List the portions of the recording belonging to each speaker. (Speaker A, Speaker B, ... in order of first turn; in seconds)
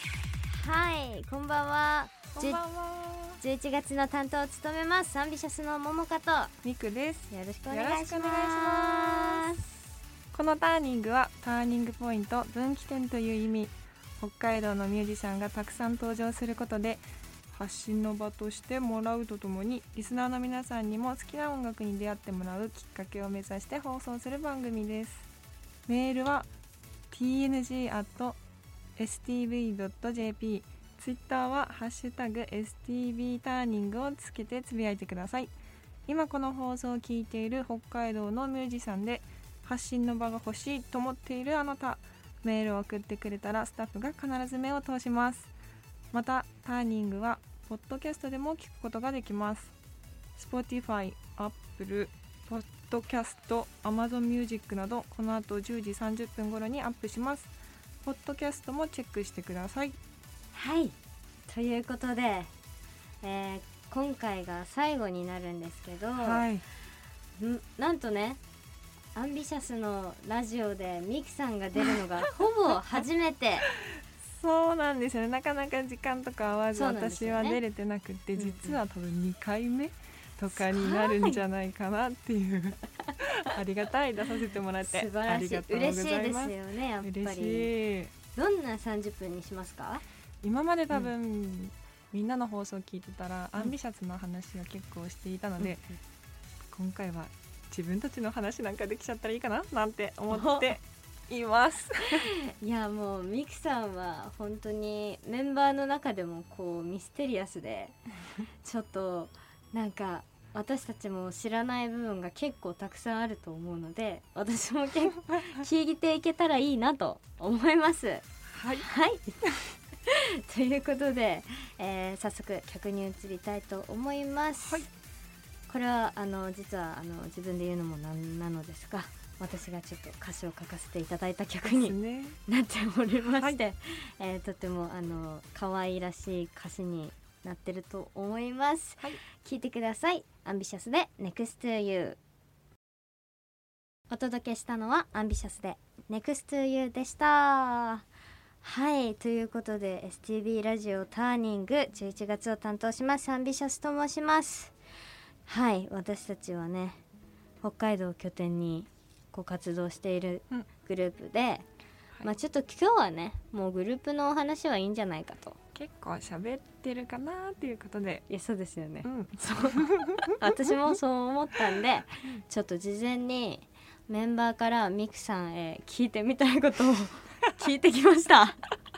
Speaker A: 0.5-2.6, 3.4-6.5, 7.3-9.7, 60.5-61.0, 61.5-62.5, 63.2-66.5, 67.4-68.4, 69.2-73.7, 76.8-77.6, 78.4-78.8, 80.6-81.4, 84.8-87.7, 88.3-90.0, 95.6-95.9, 100.3-100.8, 102.2-108.0, 108.6-119.5, 120.0-124.9, 125.7-142.2, 144.1-148.1, 148.6-154.7, 155.5-157.0, 157.6-161.7, 162.2-165.6, 168.3-178.6
Speaker B: 2.3-3.4, 6.6-9.5, 10.3-25.3, 25.9-26.5, 27.1-28.4, 29.0-35.5, 36.1-45.5, 46.1-49.7, 50.4-57.5, 58.0-60.0, 66.2-66.6, 71.8-73.1, 73.7-88.1, 90.4-95.9, 96.7-102.3, 115.3-115.6, 118.5-118.9, 124.6-124.9, 131.6-132.4, 165.8-168.2, 169.1-170.9